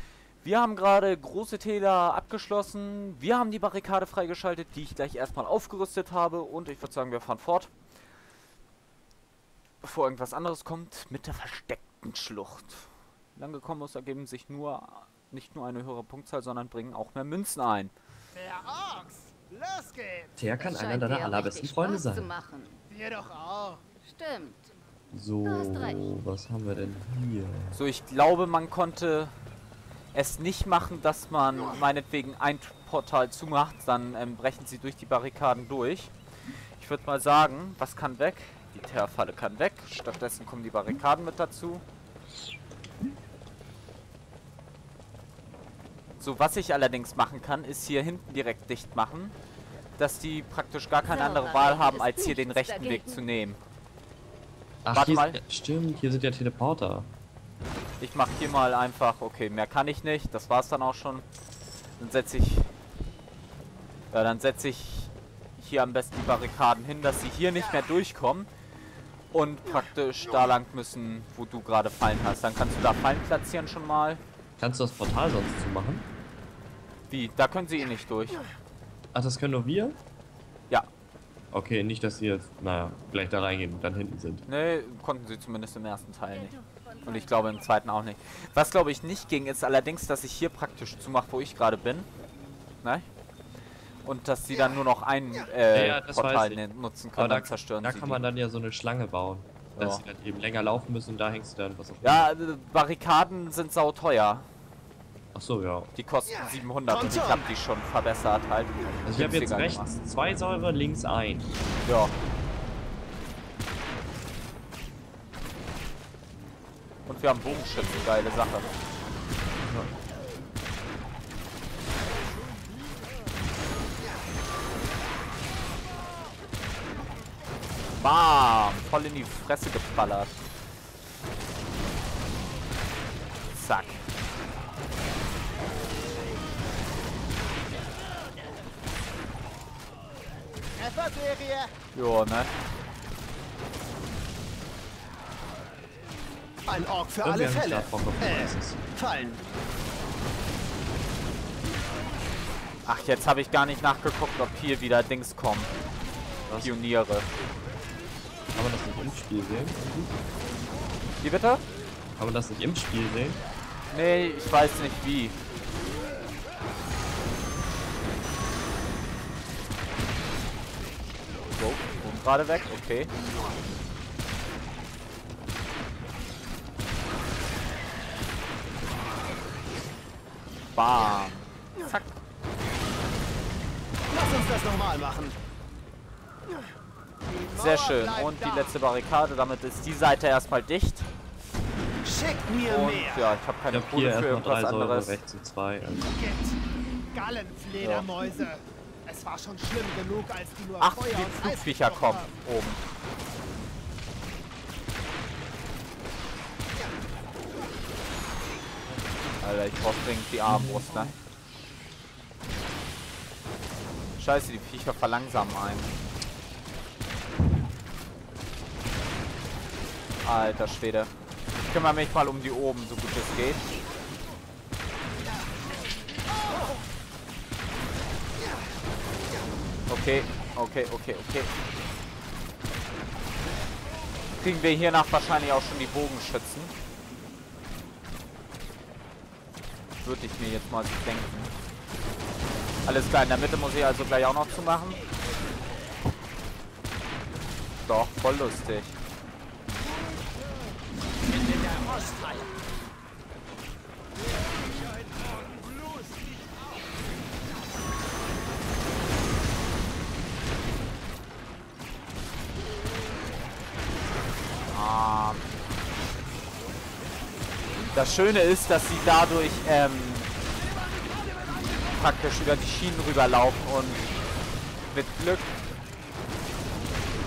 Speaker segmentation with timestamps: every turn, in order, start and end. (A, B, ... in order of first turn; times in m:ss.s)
0:00.4-0:07.7 A
0:09.8-0:17.9 A
0:18.3-0:20.3 B
0:20.4-0:22.3 C
0:20.6-0:22.8 D
0:22.9-0:23.8 B
0:24.0-0:24.7 D
0:25.1-0:27.8 C
0:25.4-0:26.0 D
0:27.7-0:29.3 A
0:30.1-0:36.1 A
0:36.8-0:41.8 A
0:46.2-0:49.3 A
0:50.0-0:53.6 A
0:51.0-0:53.2 D
0:54.8-0:57.1 C
0:54.9-0:55.4 A
0:58.0-1:01.2 A
1:02.0-1:02.7 A
1:04.1-1:08.5 A
1:09.3-1:14.2 A
1:14.6-1:16.0 C
1:17.1-1:18.4 A
1:19.1-1:20.0 C
1:21.5-1:24.4 C
1:24.5-1:32.1 A
1:26.3-1:27.4 D
1:34.0-1:38.2 A
1:35.7-1:36.6 C
1:37.1-1:42.2 C
1:39.7-1:40.0 A
1:42.0-1:44.4 A
1:45.3-1:45.9 C
1:45.9-1:49.9 A
1:46.9-1:47.6 B
1:49.0-1:51.5 C
1:51.8-1:52.1 A
1:57.1-1:58.7 A
1:59.6-1:59.9 C
2:08.0-2:10.3 A
2:13.5-2:14.0 A
2:20.8-2:21.7 B
2:21.9-2:22.5 A
2:26.7-2:29.4 B
2:27.2-2:28.8 C
2:32.8-2:35.7 A
2:36.5-2:36.7 C
2:36.6-2:37.3 A
2:38.5-2:40.2 C
2:41.2-2:41.6 A
2:42.2-2:43.4 C
2:43.9-2:45.4 A
2:51.5-2:53.1 A
3:00.7-3:02.1 A
3:01.0-3:01.2 B
3:04.1-3:05.4 B
3:07.3-3:08.8 B
3:07.5-3:11.1 A
3:12.0-3:13.4 B
3:12.6-3:15.2 A
3:13.7-3:16.1 C
3:15.8-3:16.6 B
3:17.1-3:22.3 B
3:17.8-3:18.1 A
3:20.8-3:22.8 A
3:29.4-3:31.1 A
3:30.4-3:31.1 C
3:34.2-3:35.9 A
3:40.2-3:43.7 A
3:49.9-3:51.5 A
3:54.4-3:56.7 A
4:00.0-4:01.5 A
4:02.8-4:05.0 A
4:07.8-4:09.0 A
4:11.4-4:12.5 B
4:24.7-4:25.4 A
4:27.9-4:30.3 A
4:31.9-4:34.1 A
4:34.9-4:35.5 A